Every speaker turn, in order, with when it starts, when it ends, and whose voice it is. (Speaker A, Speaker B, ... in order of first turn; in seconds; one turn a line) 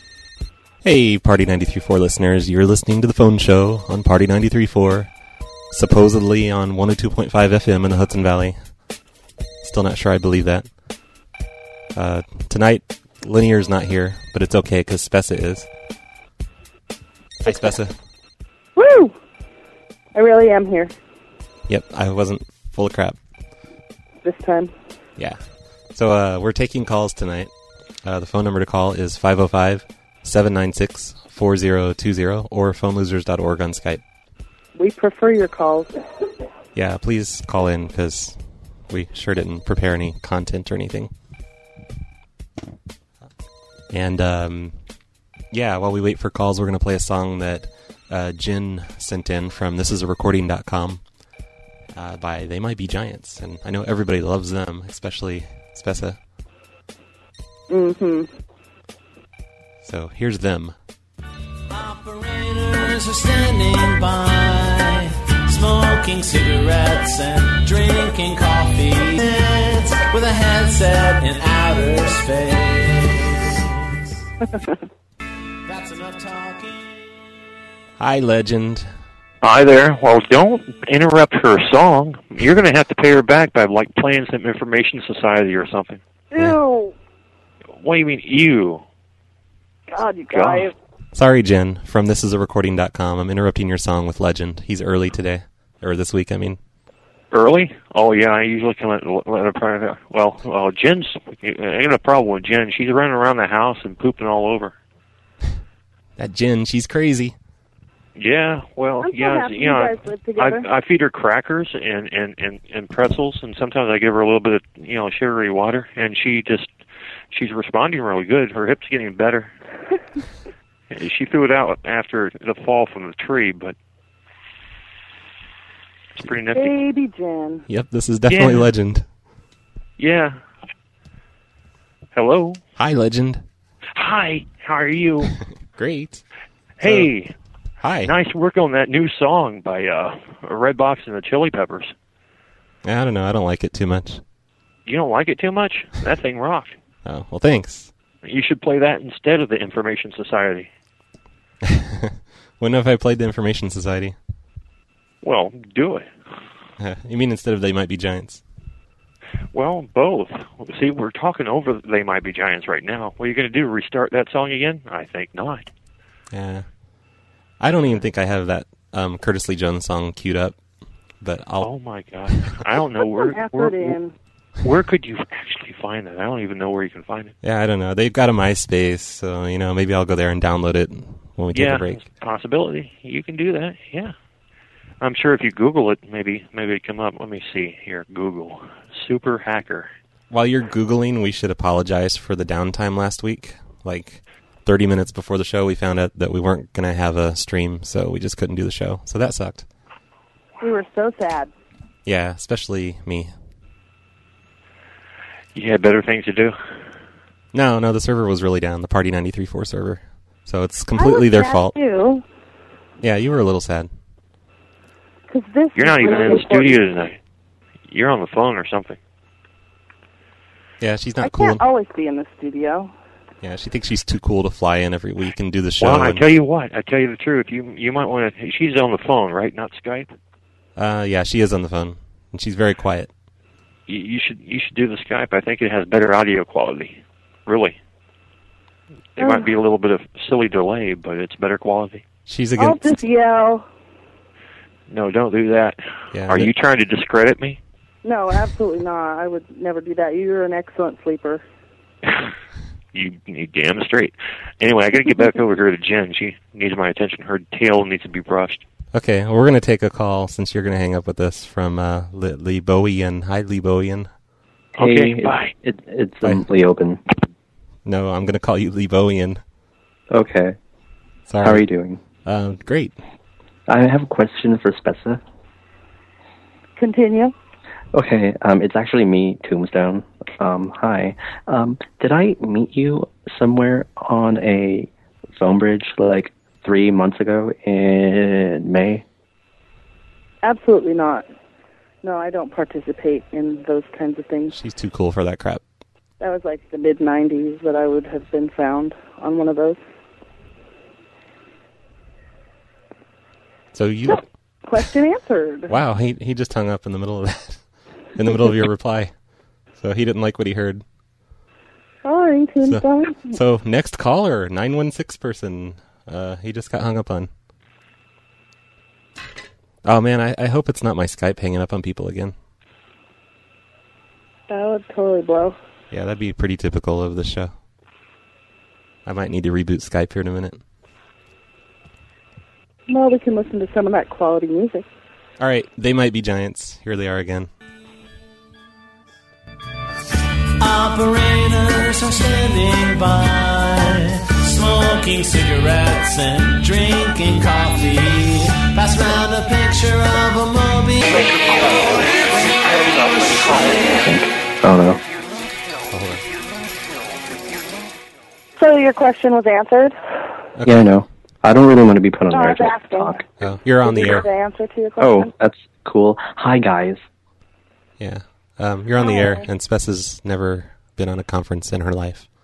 Speaker A: 0.8-5.1
Speaker A: 5.7-8.6
Speaker A: 9.6-10.7
Speaker A: 11.9-15.7
Speaker A: 17.4-17.9
Speaker B: 18.8-19.1
Speaker B: 20.1-20.9
Speaker A: 21.7-23.2
Speaker B: 24.2-24.7
Speaker A: 25.9-27.5
Speaker A: 28.0-34.0
Speaker B: 34.8-35.9
Speaker A: 36.7-38.4
Speaker A: 38.9-41.1
Speaker A: 43.9-44.7
Speaker A: 45.5-51.0
Speaker A: 51.9-56.2
Speaker B: 57.7-58.3
Speaker A: 59.8-60.7
Speaker C: 61.7-74.2
Speaker C: 75.7-77.0
Speaker A: 78.0-78.9
Speaker D: 79.4-86.0
Speaker B: 86.3-86.9
Speaker D: 87.8-88.8
Speaker B: 89.9-90.7
Speaker D: 90.3-90.7
Speaker A: 91.1-96.6
Speaker D: 97.3-104.7
Speaker A: 106.2-107.3
Speaker D: 108.2-116.8
Speaker B: 109.0-110.7
Speaker D: 117.3-119.5
Speaker D: 120.9-123.8
Speaker D: 126.1-126.7
Speaker B: 126.5-127.7
Speaker A: 127.7-129.0
Speaker D: 128.3-128.7
Speaker D: 130.0-130.4
Speaker D: 132.1-132.6
Speaker A: 132.8-133.4
Speaker D: 133.9-135.3
Speaker A: 135.8-136.2
Speaker D: 136.8-137.3
Speaker A: 136.8-137.1
Speaker A: 137.8-138.1
Speaker D: 138.0-141.9
Speaker A: 142.8-144.2
Speaker D: 144.8-146.8
Speaker A: 147.0-147.9
Speaker D: 148.2-150.7
Speaker A: 151.6-154.2
Speaker D: 155.2-156.1
Speaker A: 156.8-158.4
Speaker D: 159.5-165.7
Speaker A: 166.3-166.7
Speaker A: 167.6-170.6
Speaker A: 171.2-171.7
Speaker D: 171.6-173.7
Speaker B: 173.1-174.1
Speaker D: 174.6-177.3
Speaker A: 177.4-182.1
Speaker D: 181.5-184.1
Speaker D: 185.0-189.9
Speaker A: 190.3-199.7
Speaker B: 200.6-201.5
Speaker A: 202.1-203.3
Speaker D: 205.5-206.6
Speaker A: 207.5-211.8
Speaker B: 210.9-212.2
Speaker A: 213.0-213.9
Speaker B: 215.3-216.8
Speaker D: 215.8-217.2
Speaker D: 217.9-219.0
Speaker A: 220.8-221.6
Speaker B: 221.2-222.9
Speaker A: 223.4-226.3
Speaker D: 225.8-230.1
Speaker A: 230.8-233.1
Speaker D: 233.9-237.8
Speaker D: 239.2-242.1
Speaker B: 239.2-239.5
Speaker A: 242.3-243.0
Speaker B: 242.6-243.6
Speaker D: 244.9-247.6
Speaker A: 246.1-246.5
Speaker B: 248.0-251.4
Speaker D: 252.9-258.6
Speaker A: 258.9-264.1
Speaker D: 264.8-265.5
Speaker E: 264.8-267.0
Speaker A: 267.9-269.4
Speaker E: 270.1-270.6
Speaker A: 271.3-271.6
Speaker E: 271.4-272.0
Speaker A: 272.2-273.0
Speaker E: 273.7-275.2
Speaker B: 276.8-277.3
Speaker E: 277.9-289.0
Speaker B: 290.4-291.2
Speaker B: 292.0-294.6
Speaker A: 294.5-295.6
Speaker B: 296.2-299.8
Speaker A: 303.7-304.2
Speaker B: 304.1-305.8
Speaker A: 305.7-307.6
Speaker A: 308.2-309.1
Speaker A: 309.8-310.8
Speaker B: 312.0-313.4
Speaker A: 312.6-317.3
Speaker A: 319.8-322.3
Speaker B: 324.5-325.6
Speaker A: 325.9-327.5
Speaker A: 329.1-330.6
Speaker B: 332.9-334.9
Speaker A: 335.4-337.5
Speaker C: 340.6-351.1
Speaker E: 354.0-355.0
Speaker A: 355.9-356.2
Speaker B: 358.6-359.9
Speaker A: 360.6-360.9
Speaker E: 360.6-363.2
Speaker B: 362.3-363.2
Speaker A: 363.4-364.3
Speaker B: 363.8-365.3
Speaker E: 365.0-367.0
Speaker A: 368.0-372.2
Speaker B: 369.0-369.5